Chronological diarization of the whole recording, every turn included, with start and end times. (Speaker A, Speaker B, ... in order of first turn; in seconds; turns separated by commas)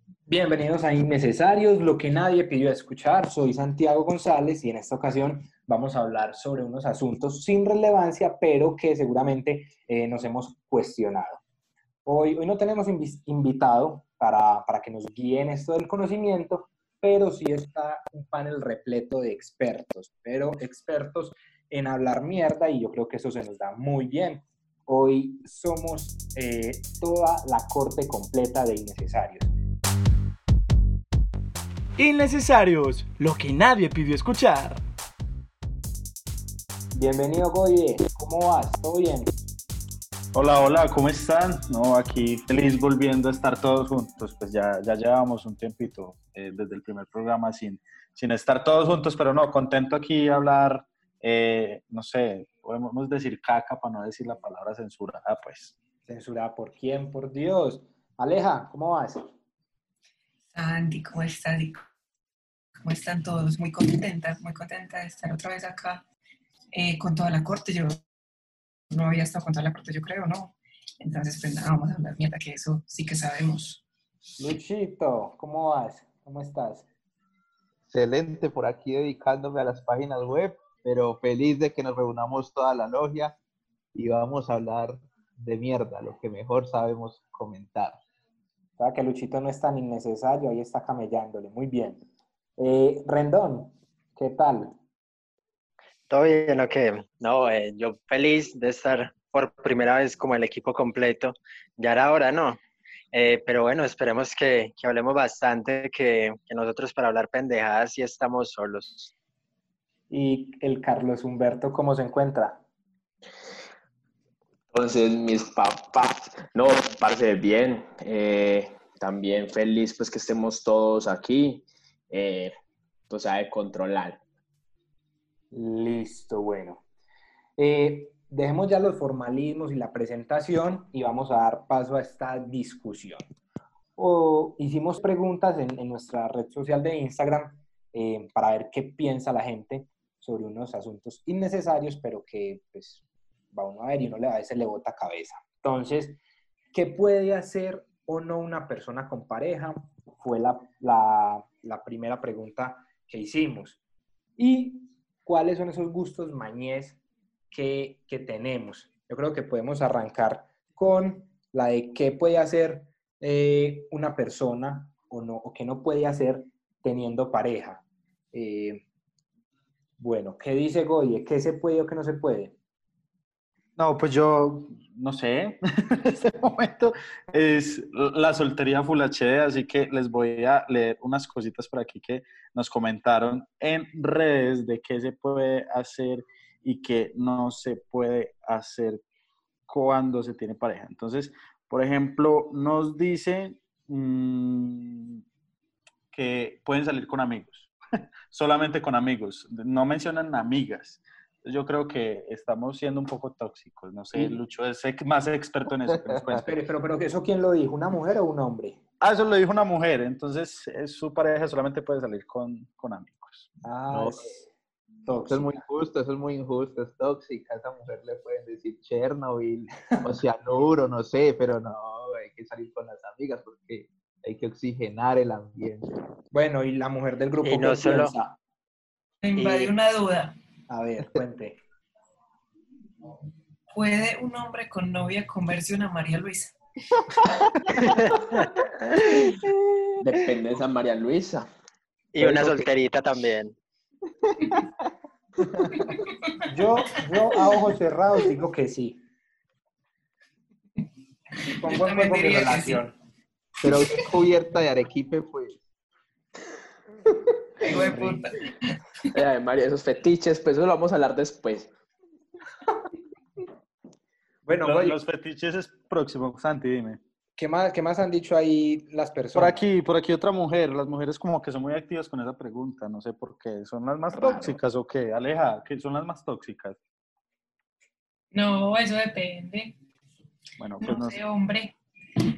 Speaker A: 0.3-11.4, Speaker A: 12.1-29.5, Speaker B: 32.0-34.8, Speaker A: 36.9-39.3, Speaker C: 40.3-55.7, Speaker A: 56.0-59.3, Speaker D: 60.5-61.8, Speaker D: 62.8-66.0, Speaker D: 66.7-68.0, Speaker D: 68.9-73.8, Speaker A: 74.4-76.9, Speaker E: 77.9-83.4, Speaker E: 83.9-88.0, Speaker A: 88.8-92.0, Speaker A: 92.6-94.7, Speaker F: 96.1-102.6, Speaker F: 103.1-109.1, Speaker A: 110.1-112.6, Speaker G: 114.7-122.5, Speaker G: 123.1-124.2, Speaker A: 125.5-126.8, Speaker A: 127.6-133.2, Speaker A: 134.0-143.0, Speaker A: 143.5-146.2, Speaker A: 146.7-153.8, Speaker A: 154.4-157.0, Speaker A: 157.5-167.8, Speaker A: 168.3-168.8, Speaker A: 170.0-172.5, Speaker C: 173.8-189.0, Speaker C: 189.7-195.2, Speaker C: 196.1-197.7, Speaker C: 198.3-206.4, Speaker E: 204.2-204.4, Speaker E: 205.8-206.4, Speaker A: 206.4-208.8, Speaker C: 209.0-213.5, Speaker A: 213.6-214.5, Speaker E: 213.9-214.3, Speaker A: 215.1-215.7, Speaker E: 215.3-225.9, Speaker A: 226.3-228.3, Speaker F: 227.4-228.1, Speaker D: 229.2-230.3, Speaker F: 229.3-229.7, Speaker A: 230.7-231.6, Speaker D: 233.7-236.5, Speaker F: 237.8-238.5, Speaker G: 240.0-241.5, Speaker F: 242.1-243.5, Speaker E: 244.3-244.6, Speaker D: 245.9-246.4, Speaker A: 246.5-249.0, Speaker D: 251.5-252.8, Speaker A: 251.6-252.9, Speaker E: 253.6-255.6, Speaker D: 257.6-258.7, Speaker A: 257.6-258.2, Speaker G: 259.1-261.7, Speaker A: 264.4-265.0, Speaker C: 264.6-267.0, Speaker A: 267.4-269.6, Speaker C: 269.3-276.8, Speaker G: 274.1-274.6, Speaker D: 278.3-279.8, Speaker C: 280.6-281.2, Speaker D: 280.8-281.8